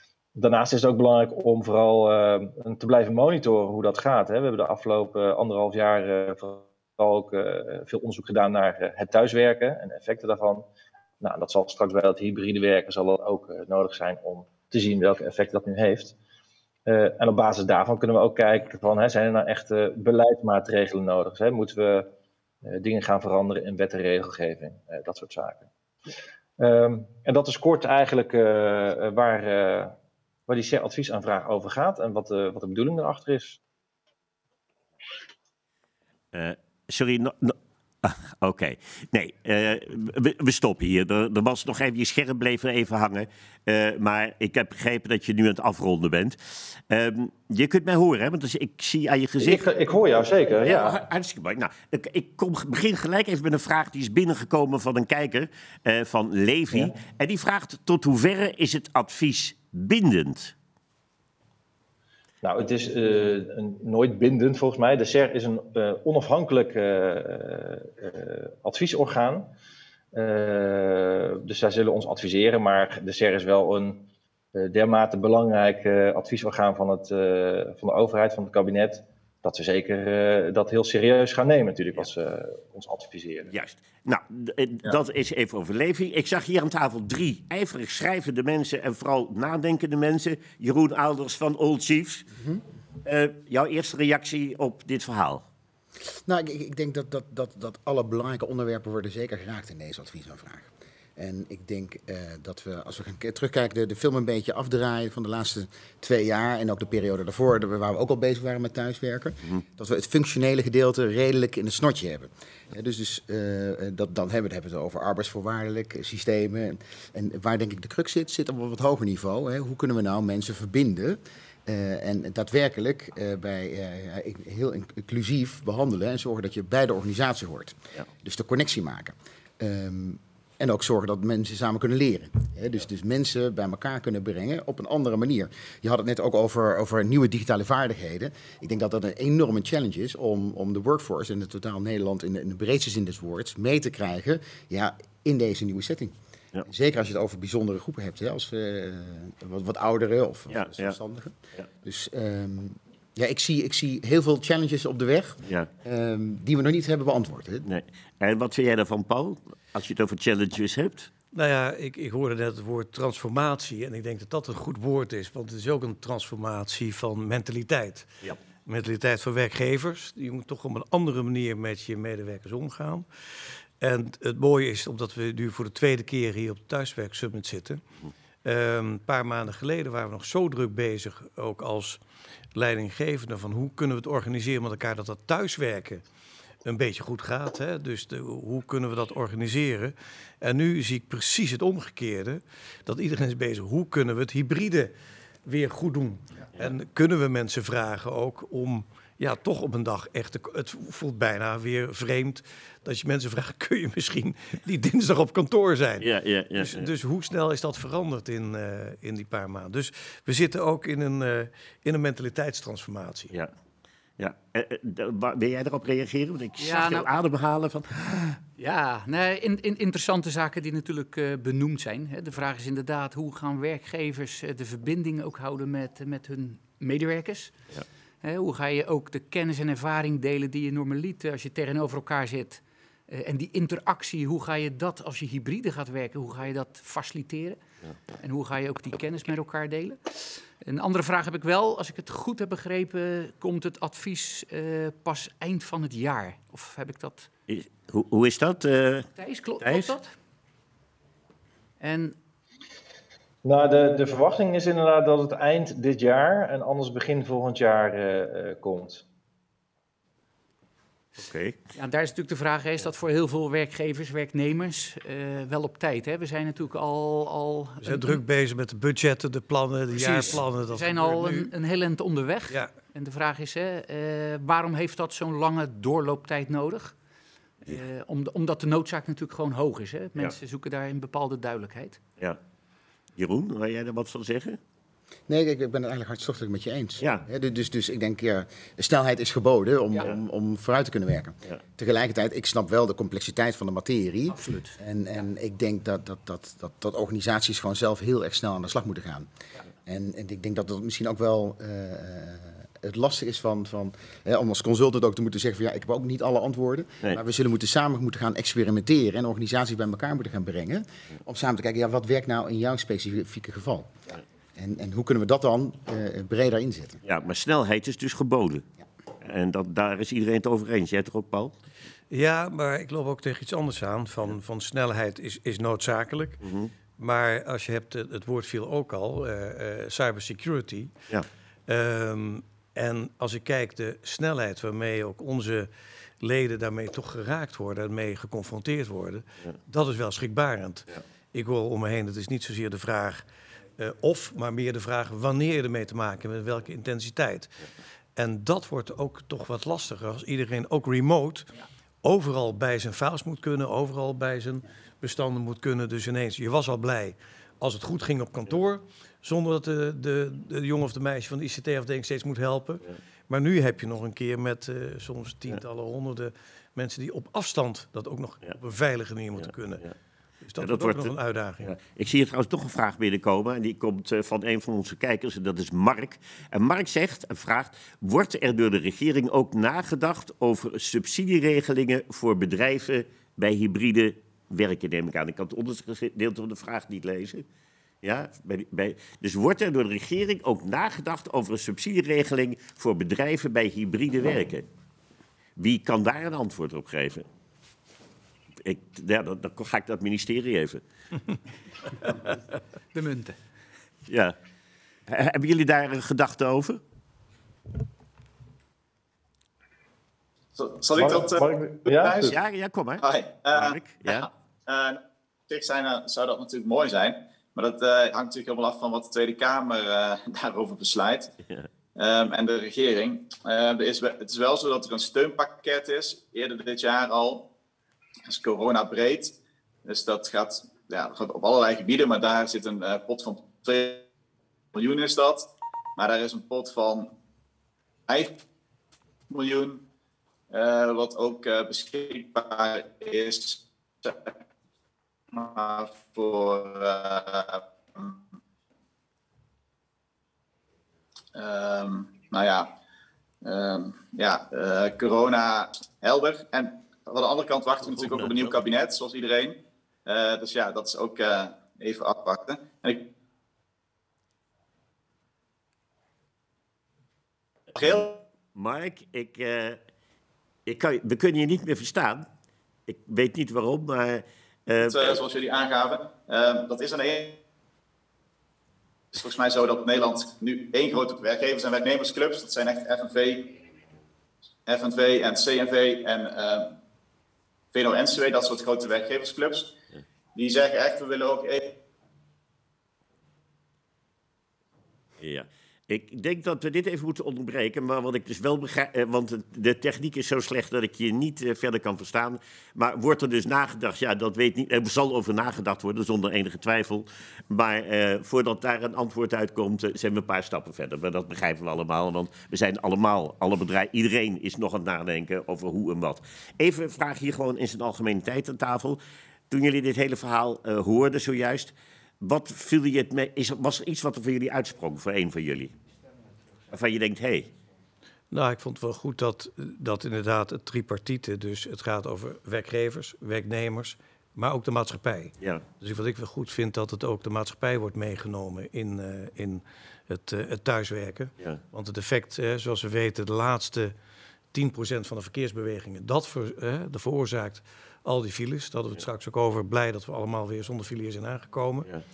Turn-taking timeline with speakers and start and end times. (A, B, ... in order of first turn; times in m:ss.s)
0:00.4-0:10.6 A
0:11.2-0:16.1 A
0:16.9-0:22.1 A
0:22.6-0:25.7 A
0:26.6-0:30.0 A
0:30.5-0:33.6 A
0:36.3-0:49.7 B
0:49.4-0:51.0 A
0:50.6-1:00.5 B
1:02.4-1:09.5 A
1:10.1-1:14.0 A
1:14.5-1:23.5 A
1:23.5-1:32.3 B
1:32.3-1:32.6 C
1:33.0-1:35.5 B
1:36.2-2:37.7 C
2:30.5-2:31.0 B
2:37.6-2:41.1 B
2:41.3-2:48.1 D
2:48.6-2:53.1 D
2:53.8-2:57.8 D
2:58.4-3:02.0 D
3:02.5-3:06.0 D
3:06.6-3:14.9 D
3:15.5-3:33.3 D
3:26.0-3:26.9 B
3:34.2-3:38.4 B
3:36.6-3:37.1 E
3:38.6-3:47.6 E
3:48.2-3:57.6 E
3:58.2-4:07.3 E
4:07.5-4:09.1 B
4:09.2-4:10.1 E
4:09.6-4:09.9 B
4:11.8-4:12.2 E
4:13.4-4:19.0 A
4:21.2-4:21.6 B
4:21.8-4:28.2 E
4:27.8-4:31.5 D
4:29.9-4:37.0 E
4:37.6-4:42.0 E
4:43.2-4:44.6 B
4:45.3-4:59.3 C
4:47.0-4:47.2 B
4:54.3-4:54.8 E
4:59.8-5:13.9 C
5:14.6-5:17.0 C
5:17.0-5:18.6 B
5:19.2-5:21.5 B
5:22.1-5:26.4 D
5:26.4-5:26.7 B
5:27.0-5:30.9 D
5:31.7-5:35.7 D
5:36.2-5:43.2 D
5:43.8-5:47.5 D
5:48.2-5:51.5 D
5:52.0-6:09.9 D
6:09.4-6:09.9 B
6:10.4-6:11.7 D
6:10.6-6:27.5 B
6:28.0-6:34.7 B
6:35.6-6:37.3 B
6:38.6-6:40.8 B
6:42.9-6:43.4 E
6:44.1-6:44.4 B
6:45.1-6:46.8 B
6:50.6-6:52.4 F
6:51.0-6:52.3 A
6:52.2-6:54.3 B
6:53.0-7:01.3 F
7:02.0-7:07.5 F
7:08.3-7:14.1 F
7:14.7-7:17.1 F
7:18.1-7:18.4 F
7:19.3-7:19.8 F
7:20.5-7:24.3 F
7:25.3-7:28.2 F
7:31.3-7:32.7 F
7:33.4-7:43.1 F
7:37.8-7:38.6 B
7:47.8-7:49.8 B
7:47.8-7:48.2 F
7:50.7-7:52.3 B
7:52.9-7:55.2 B
7:54.8-7:57.4 F
7:59.1-8:03.6 F
8:04.7-8:06.8 F
8:07.7-8:09.7 F
8:10.4-8:11.8 F
8:15.2-8:45.7 B
8:46.7-8:47.5 B
8:48.3-9:04.0 D
9:04.5-9:11.9 D